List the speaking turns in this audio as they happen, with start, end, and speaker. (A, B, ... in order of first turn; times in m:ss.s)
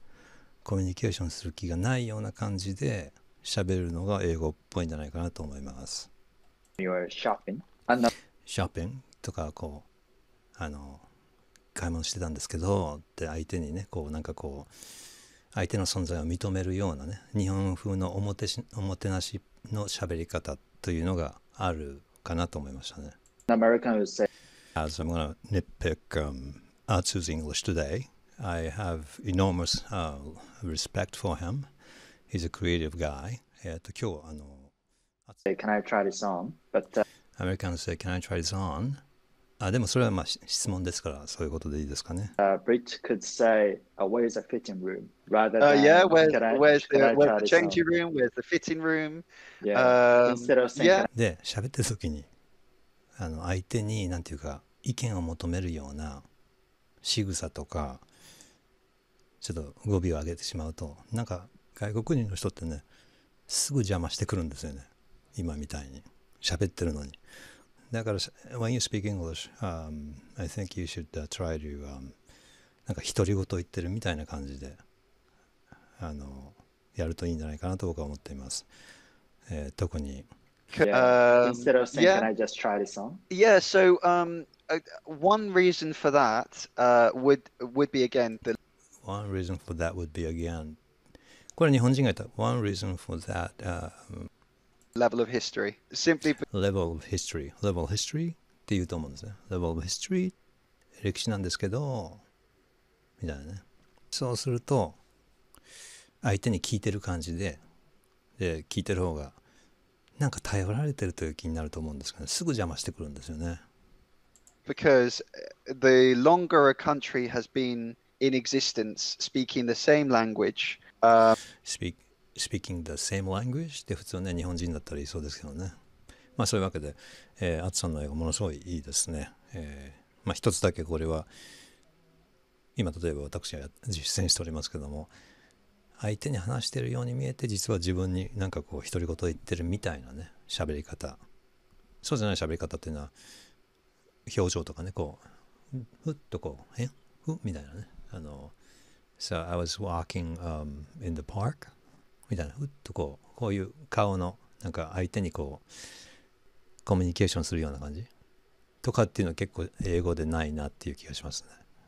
0:00.6-0:06.1 A
0:06.8-0:08.1 B
0:08.4-0:09.8 A
0:10.6-0:11.0 A
0:11.7-0:14.7 A
0:15.5-0:23.2 A
0:23.5-0:24.3 B
0:24.8-0:31.7 A
0:32.3-0:34.7 A
0:35.4-0:37.0 B
0:37.4-0:39.0 A
0:39.6-0:42.3 A
0:42.4-0:47.8 B
0:45.6-0:51.1 C
0:49.6-0:51.1 B
0:51.1-0:52.3 A
0:53.2-0:56.2 A
0:57.0-0:58.0 A
0:59.4-1:02.8 A
1:03.5-1:07.2 A
1:07.9-1:12.1 A
1:12.9-1:14.8 A
1:16.0-1:18.7 A
1:19.5-1:20.3 A
1:20.7-1:22.3 C
1:20.8-1:23.2 B
1:23.3-1:28.6 C
1:29.0-1:30.8 A
1:31.6-1:34.3 A
1:35.0-1:36.4 C
1:36.5-1:40.3 A
1:41.0-1:42.2 A
1:43.2-1:45.0 A
1:46.2-1:47.6 A
1:48.4-1:49.4 A
1:50.2-1:53.6 A
1:54.6-2:01.3 C
2:01.6-2:05.7 A
2:06.4-2:11.3 A
2:12.8-2:15.1 A
2:16.0-2:21.2 A
2:22.0-2:23.1 A
2:24.2-2:28.5 A
2:29.2-2:31.7 A
2:32.3-2:35.6 A
2:36.8-2:38.1 A
2:38.8-2:41.6 A